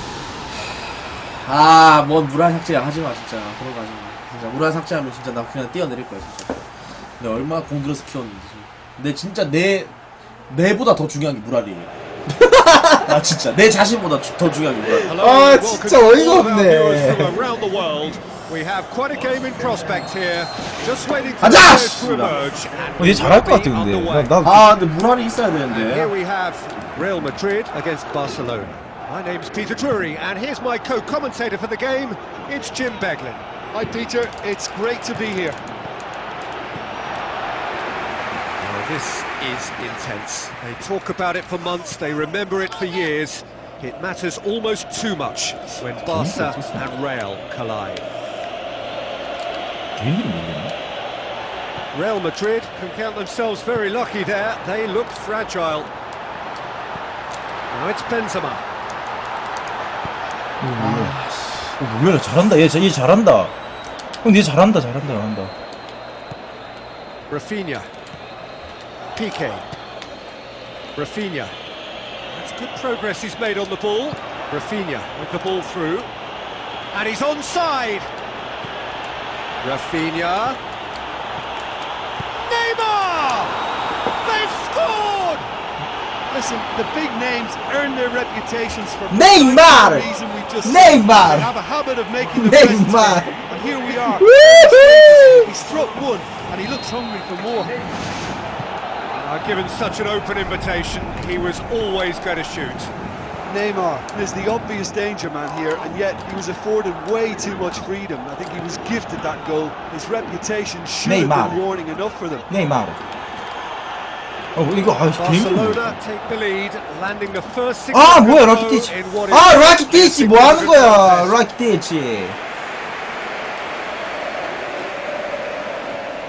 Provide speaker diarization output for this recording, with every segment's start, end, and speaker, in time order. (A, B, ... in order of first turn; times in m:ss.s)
0:01.3-0:06.6 A
0:07.2-0:09.9 A
0:10.5-0:11.9 A
0:12.6-0:13.2 B
0:13.0-0:15.1 A
0:15.0-0:24.4 C
0:15.1-0:17.4 B
0:21.4-0:22.4 A
0:23.0-0:24.8 B
0:24.4-0:26.1 A
0:25.7-0:33.4 C
0:33.7-0:35.6 D
0:38.6-0:48.1 C
0:46.0-0:46.9 B
0:50.0-0:50.7 B
0:51.9-0:55.9 C
0:57.7-0:58.6 C
1:00.6-1:01.2 B
1:00.8-1:01.8 A
1:01.8-1:03.5 B
1:04.2-1:05.5 B
1:07.3-1:07.9 C
1:09.2-1:09.7 C
1:10.9-1:11.5 C
1:12.3-1:16.1 C
1:16.9-1:18.1 C
1:19.6-1:20.6 C
1:22.3-1:23.7 C
1:24.2-1:25.5 C
1:26.3-1:37.8 D
1:29.1-1:30.1 B
1:30.6-1:31.5 B
1:32.3-1:33.3 B
1:34.1-1:35.5 B
1:39.1-1:42.9 C
1:43.5-1:52.5 D
1:51.0-1:51.6 B
1:52.5-1:53.0 B
1:54.5-1:56.0 B
1:55.2-2:01.4 C
1:57.9-2:02.4 B